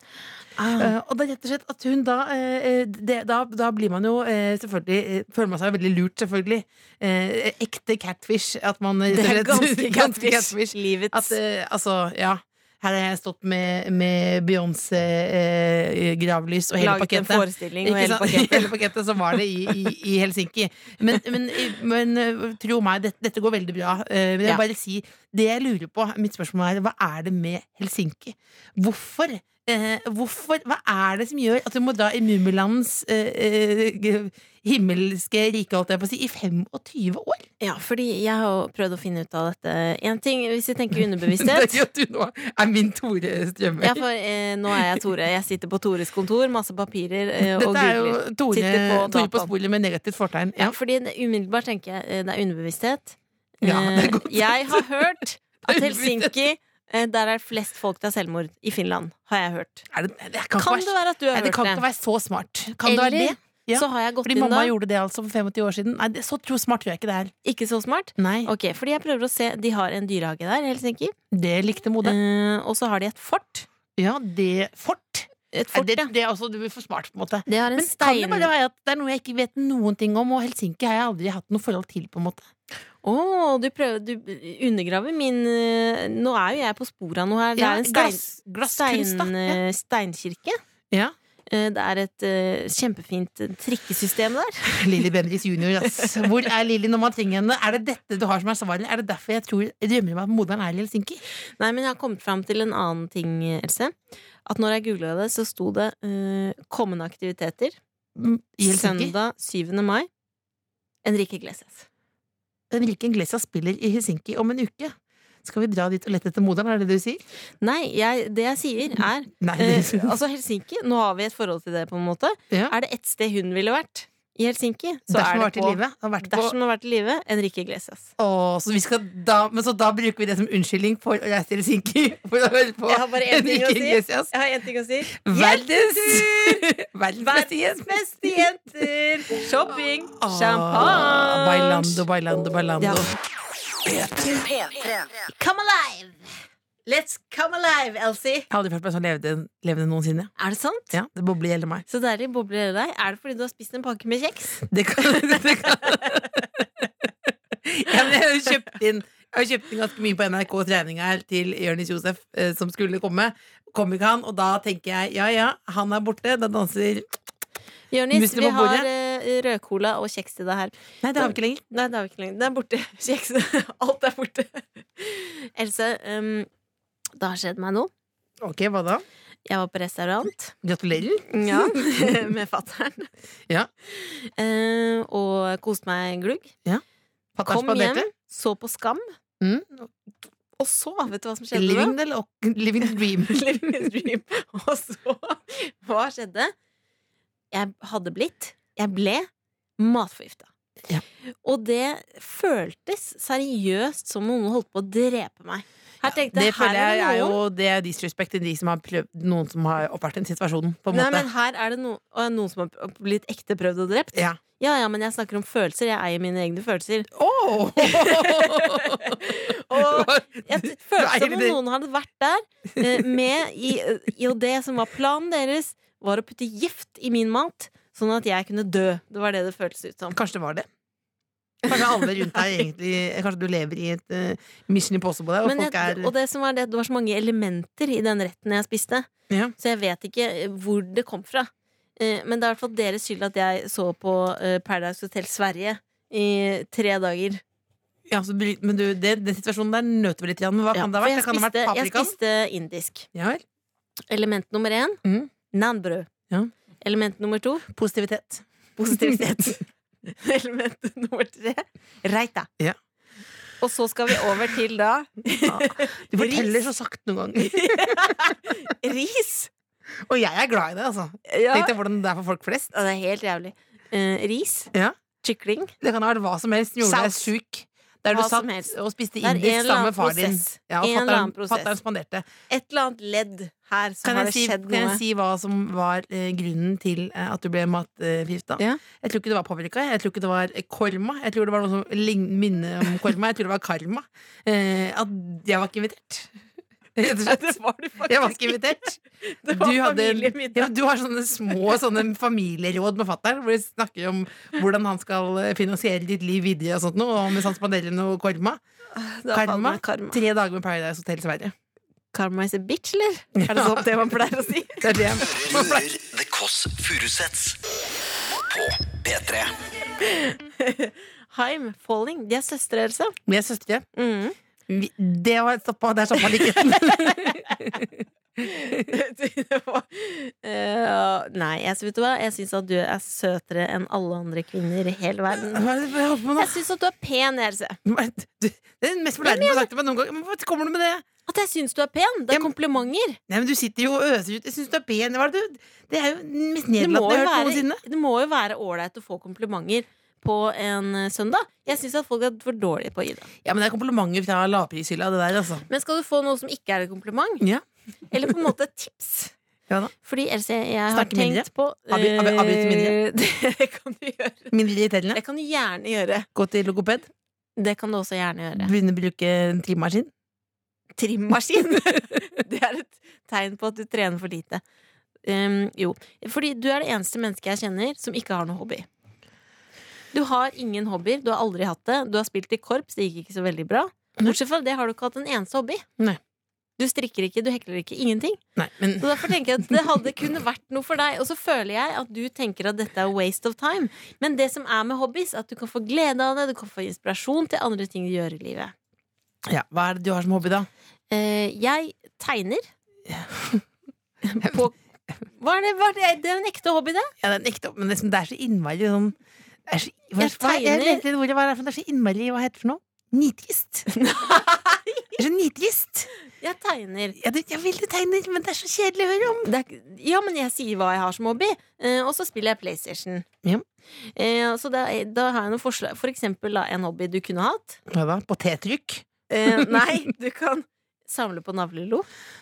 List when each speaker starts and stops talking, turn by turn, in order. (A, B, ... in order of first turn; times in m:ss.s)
0:00.6-0:00.9 A
0:00.7-0:37.5 B
0:09.1-0:11.4 A
0:16.8-0:18.7 A
0:37.6-0:41.8 A
0:41.2-0:44.0 B
0:43.8-0:49.5 A
0:47.4-0:50.8 B
0:50.6-0:59.9 A
0:53.6-0:54.9 B
0:55.7-0:56.3 B
0:59.9-1:07.3 B
1:00.6-1:01.8 A
1:02.8-1:04.7 A
1:07.4-1:11.2 A
1:08.2-1:08.5 B
1:11.3-1:12.2 B
1:12.0-1:13.7 A
1:14.0-1:22.5 B
1:15.5-1:16.1 A
1:17.5-1:18.5 A
1:23.0-1:30.6 A
1:27.6-1:29.6 B
1:31.5-1:34.7 A
1:34.7-1:41.2 B
1:35.8-1:36.3 A
1:41.6-1:43.9 A
1:44.5-1:47.8 A
1:48.2-1:49.1 B
1:48.6-1:50.1 A
1:51.0-1:51.9 A
1:52.7-1:57.2 B
1:57.6-2:08.1 A
1:59.4-2:00.1 B
2:05.1-2:06.6 B
2:08.2-2:14.3 B
2:12.9-2:22.0 A
2:15.1-2:18.4 B
2:20.2-2:23.1 B
2:22.8-2:23.1 A
2:25.3-2:28.5 A
2:28.5-2:30.3 B
2:30.4-2:31.0 A
2:30.9-2:31.8 B
2:31.9-2:36.4 A
2:34.6-2:36.6 B
2:37.3-2:47.1 B
2:47.9-2:56.5 A
2:48.1-2:48.9 B
2:51.0-2:51.6 B
2:57.2-2:57.9 A
2:58.4-2:59.0 B
2:59.5-3:00.5 A
3:00.6-3:02.2 B
3:01.3-3:03.1 A
3:04.0-3:06.5 A
3:07.4-3:08.1 B
3:07.4-3:09.1 A
3:09.4-3:09.9 B
3:10.6-3:12.0 A
3:11.5-3:13.9 B
3:13.2-3:16.5 A
3:17.5-3:20.5 A
3:21.4-3:27.4 A
3:26.1-3:31.3 B
3:30.9-3:37.1 A
3:34.2-3:34.4 B
3:37.1-3:41.6 B
3:37.8-3:50.2 A
3:50.1-3:50.7 B
3:51.7-3:56.1 B
3:51.7-3:52.0 A
3:55.4-4:07.4 A
4:08.1-4:12.2 B
4:10.7-4:13.1 A
4:13.1-4:13.4 B
4:14.1-4:16.1 A
4:15.0-4:15.3 B
4:16.8-4:17.7 A
4:17.7-4:19.2 B
4:18.8-4:22.5 A
4:23.6-4:26.7 A
4:25.4-4:28.4 B
4:27.4-4:29.5 A
4:30.1-4:32.7 B
4:31.3-4:31.7 A
4:32.7-4:34.7 A
4:35.2-4:35.7 A
4:35.8-4:42.3 B
4:36.8-4:37.3 A
4:38.1-4:41.7 A
4:42.5-4:45.0 A
4:44.0-4:56.3 B
4:57.0-4:57.6 B
4:57.0-5:00.7 A
4:58.1-4:59.0 B
4:59.5-5:08.6 B
5:08.9-5:10.2 A
5:09.3-5:11.5 B
5:12.1-5:15.0 A
5:13.4-5:14.0 B
5:14.8-5:15.9 B
5:15.2-5:17.6 C
5:18.5-5:19.6 C
5:20.0-5:23.2 A
5:23.3-5:23.9 B
5:24.0-5:24.4 A
5:24.7-5:27.9 B
5:26.2-5:27.8 A
5:28.4-5:35.7 A
5:35.3-5:36.6 B
5:36.4-5:37.8 A
5:37.8-5:41.0 B
5:39.2-5:39.7 A
5:41.3-5:43.2 A
5:43.3-5:47.8 B
5:46.8-5:53.3 A
5:53.4-5:55.7 B
5:55.7-5:57.4 A
5:58.1-5:59.3 A
6:00.0-6:04.5 A
6:00.9-6:03.0 B
6:04.5-6:05.2 B
6:05.1-6:06.3 A
6:06.4-6:07.1 B
6:07.6-6:08.7 A
6:08.6-6:10.1 B
6:11.0-6:14.6 A
6:15.2-6:18.9 A
6:20.1-6:25.8 A
6:26.8-6:28.4 A
6:28.6-6:29.3 B
6:29.0-6:38.7 A
6:39.5-6:40.7 B
6:41.1-6:42.7 A
6:43.1-6:43.6 B
6:44.2-6:44.8 A
6:45.4-6:47.1 A
6:47.2-6:49.2 B
6:49.7-6:54.4 B
6:50.2-6:51.0 A
6:53.9-6:55.2 A
6:55.2-6:56.1 B
6:56.4-6:57.2 A
6:57.2-6:59.5 B
6:59.4-7:03.3 A
7:04.2-7:07.8 A
7:07.9-7:10.1 B
7:09.3-7:12.1 A